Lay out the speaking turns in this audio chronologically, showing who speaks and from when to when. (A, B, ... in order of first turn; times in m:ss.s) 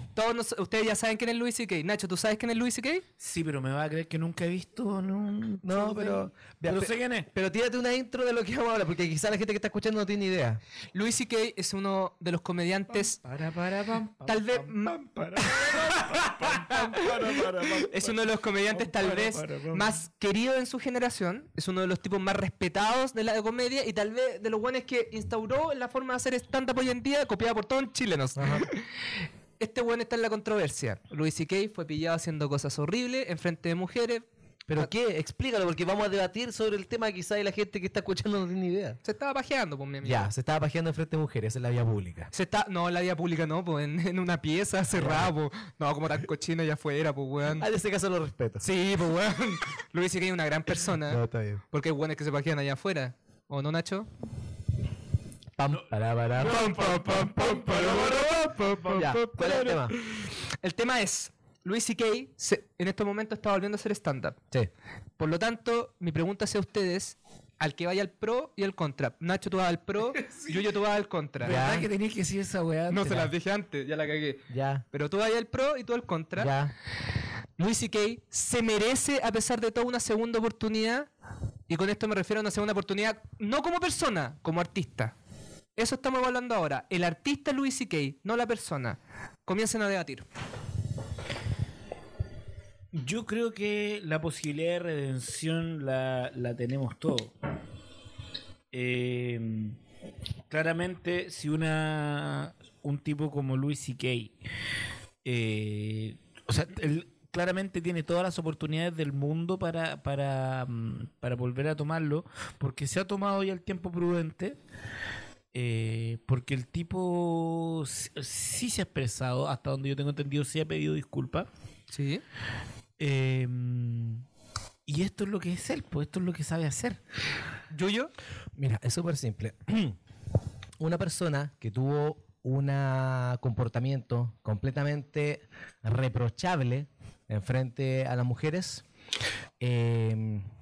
0:00.2-0:03.0 A
0:03.2-0:07.3 B
0:05.6-0:10.6 C
0:10.9-0:13.2 A
0:12.9-0:20.0 B
0:14.3-0:28.8 A
0:28.4-0:28.7 C
0:29.6-0:34.2 A
0:34.7-0:39.0 C
0:39.0-0:40.3 A
0:40.0-0:42.3 C
0:42.3-0:47.7 A
0:44.9-0:45.3 C
0:47.6-0:48.6 C
0:48.6-0:54.1 A
0:51.1-0:51.6 C
0:55.6-0:58.3 C
0:55.7-1:00.0 B
0:56.5-0:59.1 A
0:58.9-1:00.0 C
1:00.6-1:04.4 A
1:05.2-1:11.6 A
1:10.2-1:10.6 B
1:11.4-1:13.3 B
1:11.4-1:11.9 C
1:12.9-1:16.5 A
1:13.0-1:13.3 C
1:14.5-1:14.8 C
1:16.4-1:16.7 C
1:17.6-1:21.1 A
1:21.7-1:25.2 A
1:25.8-1:30.3 A
1:32.9-1:37.3 B
1:38.7-1:39.8 B
1:40.5-1:44.4 B
1:45.2-1:54.6 B
1:55.5-2:01.5 B
2:01.9-2:02.2 A
2:03.0-2:04.2 B
2:04.9-2:07.0 B
2:07.7-2:08.1 A
2:08.6-2:10.0 C
2:10.8-2:18.8 C
2:19.6-2:20.4 C